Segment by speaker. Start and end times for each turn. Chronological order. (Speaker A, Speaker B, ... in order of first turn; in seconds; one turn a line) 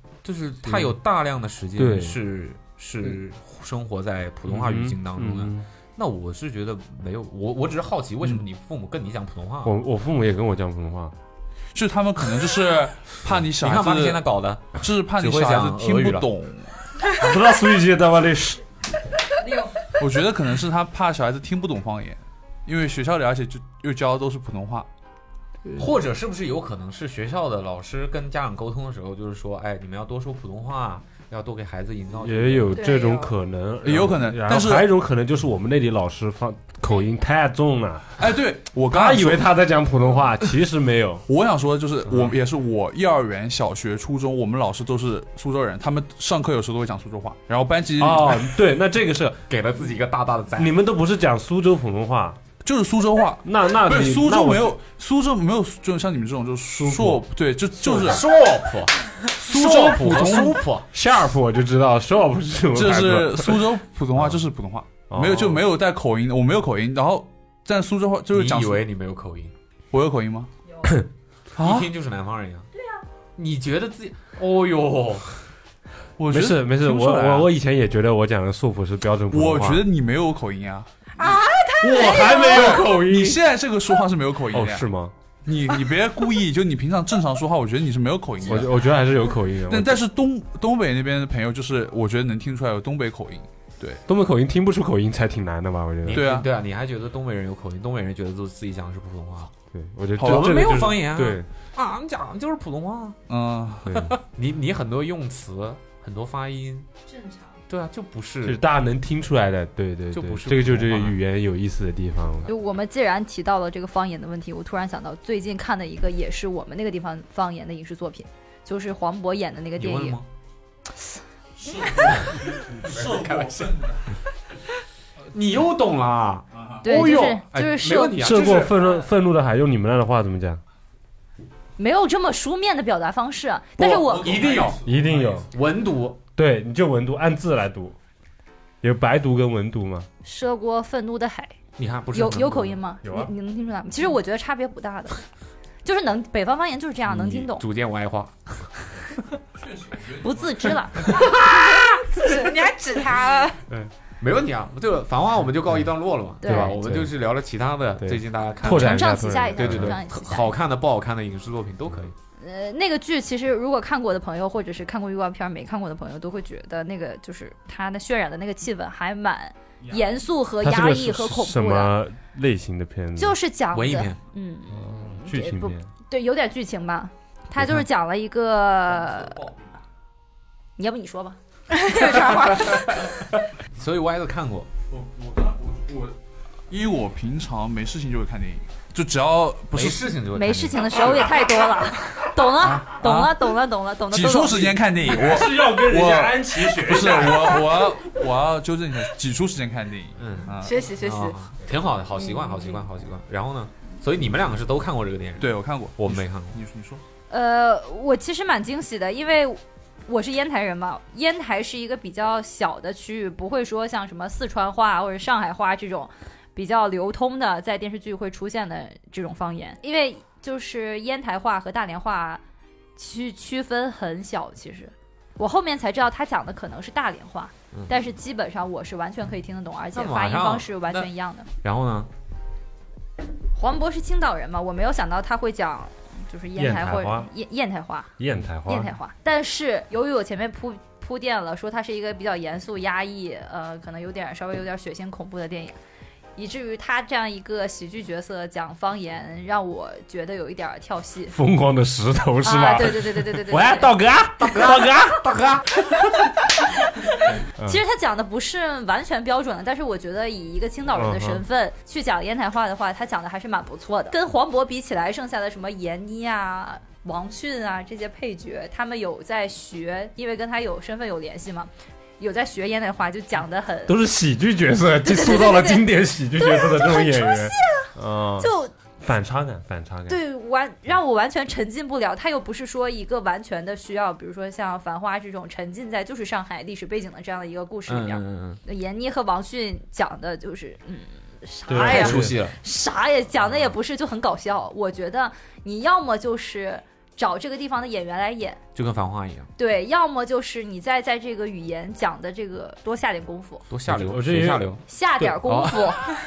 Speaker A: 0.2-9.7
Speaker B: 0.6-1.0
Speaker B: 1.8-2.2
Speaker B: 4.5-5.7
Speaker B: 9.6-11.2
Speaker C: 11.7-14.2
Speaker A: 13.5-16.3
Speaker C: 14.8-16.7
Speaker B: 17.1-18.6
Speaker C: 19.8-24.9
Speaker A: 25.7-32.8
Speaker B: 32.2-38.2
Speaker D: 32.7-33.3
Speaker C: 33.8-34.9
Speaker C: 38.2-39.5
Speaker B: 38.9-41.2
Speaker C: 41.3-48.5
Speaker B: 48.0-49.4
Speaker A: 49.5-50.7
Speaker B: 50.5-52.4
Speaker C: 52.6-58.2
Speaker B: 53.4-54.7
Speaker B: 56.8-57.2
Speaker A: 57.8-60.9
Speaker C: 59.4-60.6
Speaker B: 59.5-64.4
Speaker C: 62.7-68.8
Speaker B: 65.1-65.7
Speaker A: 68.3-69.5
Speaker C: 69.9-70.5
Speaker C: 71.6-71.9
Speaker A: 71.6-72.7
Speaker A: 73.3-75.4
Speaker C: 76.2-77.5
Speaker B: 76.3-79.8
Speaker C: 79.3-80.9
Speaker D: 81.2-83.0
Speaker B: 81.8-83.4
Speaker C: 82.4-84.9
Speaker B: 84.5-85.1
Speaker C: 85.4-89.0
Speaker B: 88.4-90.0
Speaker C: 89.7-94.0
Speaker B: 94.1-96.2
Speaker A: 96.0-99.5
Speaker C: 96.1-96.5
Speaker B: 99.7-101.5
Speaker A: 100.2-103.2
Speaker C: 100.2-100.5
Speaker C: 103.3-104.0
Speaker B: 103.8-104.1
Speaker A: 103.9-106.9
Speaker E: 107.1-107.5
Speaker A: 107.7-108.6
Speaker B: 108.4-112.5
Speaker A: 110.1-111.2
Speaker E: 112.5-120.2
Speaker A: 119.8-120.2
Speaker C: 121.6-124.2
Speaker A: 122.8-123.7
Speaker A: 125.3-128.8
Speaker C: 126.5-126.9
Speaker E: 126.8-128.2
Speaker B: 128.2-130.6
Speaker E: 131.8-134.6
Speaker A: 133.8-134.8
Speaker C: 133.9-135.5
Speaker B: 134.8-135.4
Speaker A: 135.5-136.2
Speaker B: 136.3-137.9
Speaker B: 138.8-140.1
Speaker E: 140.2-141.5
Speaker A: 141.8-142.8
Speaker E: 142.1-145.2
Speaker B: 143.0-143.3
Speaker E: 145.8-147.6
Speaker A: 147.1-148.7
Speaker C: 149.6-151.1
Speaker E: 150.2-151.2
Speaker A: 151.0-152.4
Speaker D: 151.3-153.6
Speaker A: 153.7-162.1
Speaker E: 156.4-156.7
Speaker B: 156.4-157.1
Speaker B: 158.0-160.0
Speaker E: 158.6-160.5
Speaker E: 162.4-171.9
Speaker C: 169.8-170.1
Speaker B: 170.6-173.4
Speaker E: 173.2-179.4
Speaker A: 173.7-174.2
Speaker B: 174.7-175.9
Speaker C: 178.9-179.8
Speaker E: 180.8-181.4
Speaker D: 181.7-183.0
Speaker A: 182.0-184.7
Speaker C: 184.9-186.2
Speaker C: 186.7-190.2
Speaker A: 189.7-191.3
Speaker E: 190.3-194.8
Speaker C: 192.6-193.4
Speaker C: 194.1-200.8
Speaker B: 195.0-197.9
Speaker A: 200.2-206.6
Speaker D: 200.6-201.5
Speaker C: 205.4-207.0
Speaker E: 207.3-222.4
Speaker E: 222.9-231.5
Speaker A: 229.9-231.1
Speaker A: 231.6-232.1
Speaker E: 233.5-238.1
Speaker B: 236.6-237.3
Speaker B: 238.2-238.9
Speaker E: 238.7-245.8
Speaker E: 246.3-251.3
Speaker B: 251.3-256.2
Speaker E: 252.4-253.9
Speaker A: 254.4-255.8
Speaker B: 257.5-257.8
Speaker E: 257.6-274.0
Speaker B: 260.9-261.4
Speaker B: 273.9-280.2
Speaker E: 275.0-278.7
Speaker E: 280.1-298.6
Speaker A: 287.9-288.6
Speaker B: 291.7-292.4
Speaker A: 291.7-292.6
Speaker A: 298.7-299.5
Speaker E: 299.6-303.7
Speaker A: 303.7-306.1
Speaker B: 303.9-304.7
Speaker E: 304.9-306.1